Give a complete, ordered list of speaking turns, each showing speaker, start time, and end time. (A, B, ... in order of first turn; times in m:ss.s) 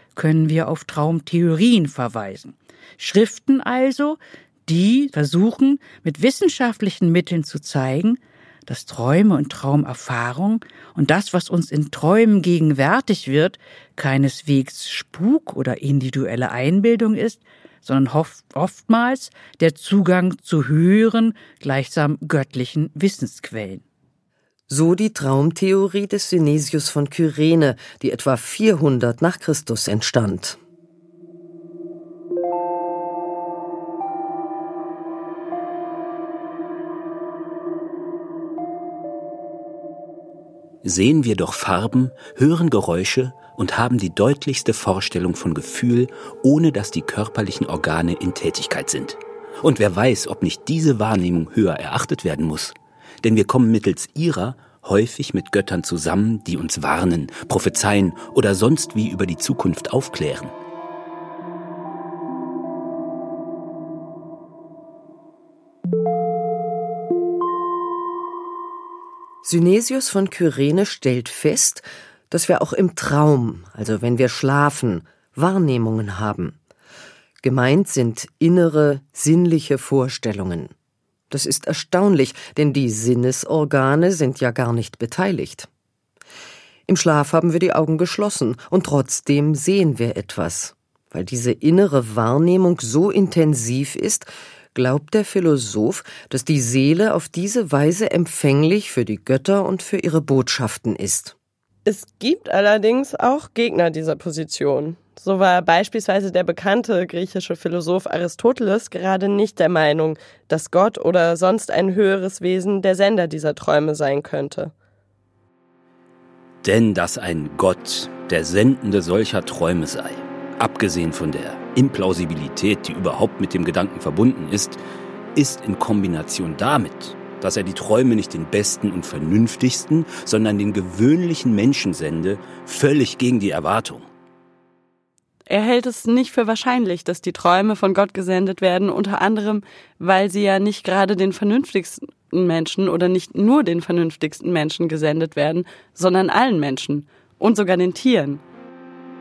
0:00.2-0:23.8 A
0:24.7-0:30.6 B
0:40.8-1:00.5 C
1:09.4-1:16.6 B
1:17.4-1:20.7 B
1:21.3-1:25.7 B
1:26.9-1:41.3 B
1:41.9-1:54.7 D
1:56.6-2:04.8 C
2:05.3-2:14.1 C
2:15.5-2:28.4 D